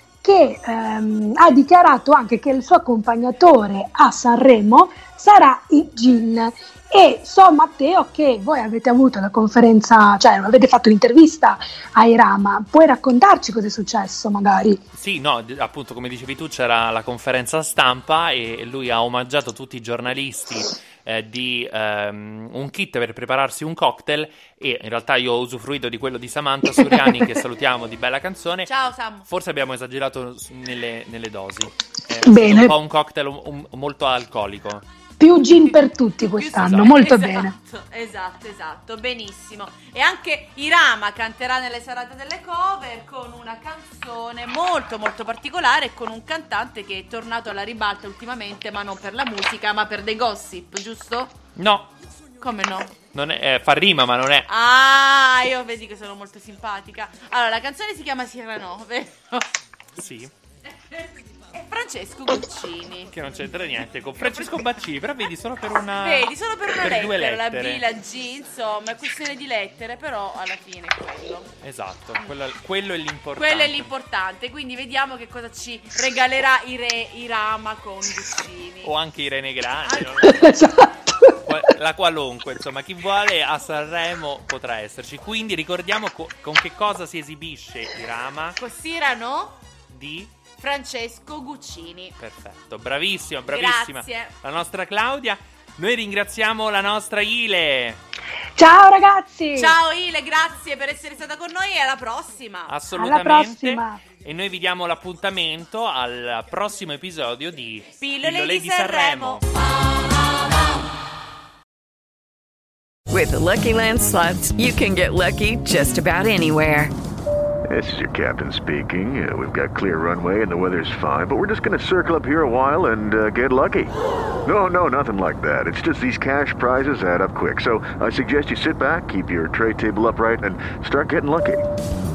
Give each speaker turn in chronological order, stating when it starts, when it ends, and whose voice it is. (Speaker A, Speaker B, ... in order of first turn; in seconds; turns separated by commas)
Speaker A: 0.2-14.8, Speaker B: 14.9-28.7, Speaker C: 28.7-29.3, Speaker B: 29.3-34.8, Speaker A: 32.2-32.7, Speaker A: 35.2-37.5, Speaker C: 36.4-51.4, Speaker B: 36.6-37.0, Speaker B: 51.6-51.9, Speaker C: 52.4-53.0, Speaker B: 53.1-54.5, Speaker C: 54.5-59.5, Speaker B: 60.0-60.3, Speaker C: 60.9-63.1, Speaker B: 63.1-67.8, Speaker C: 66.0-71.5, Speaker B: 71.6-73.9, Speaker C: 73.4-78.9, Speaker B: 78.8-80.4, Speaker C: 79.8-80.5, Speaker A: 80.2-81.3, Speaker B: 81.5-88.6, Speaker C: 88.6-89.6, Speaker B: 89.9-90.4, Speaker C: 90.6-92.1, Speaker B: 92.2-98.0, Speaker C: 93.5-94.3, Speaker A: 98.6-99.8, Speaker C: 99.5-102.7, Speaker B: 102.7-109.5, Speaker A: 102.9-104.0, Speaker C: 108.0-109.4, Speaker D: 113.1-116.9, Speaker E: 117.7-123.9, Speaker E: 124.5-131.6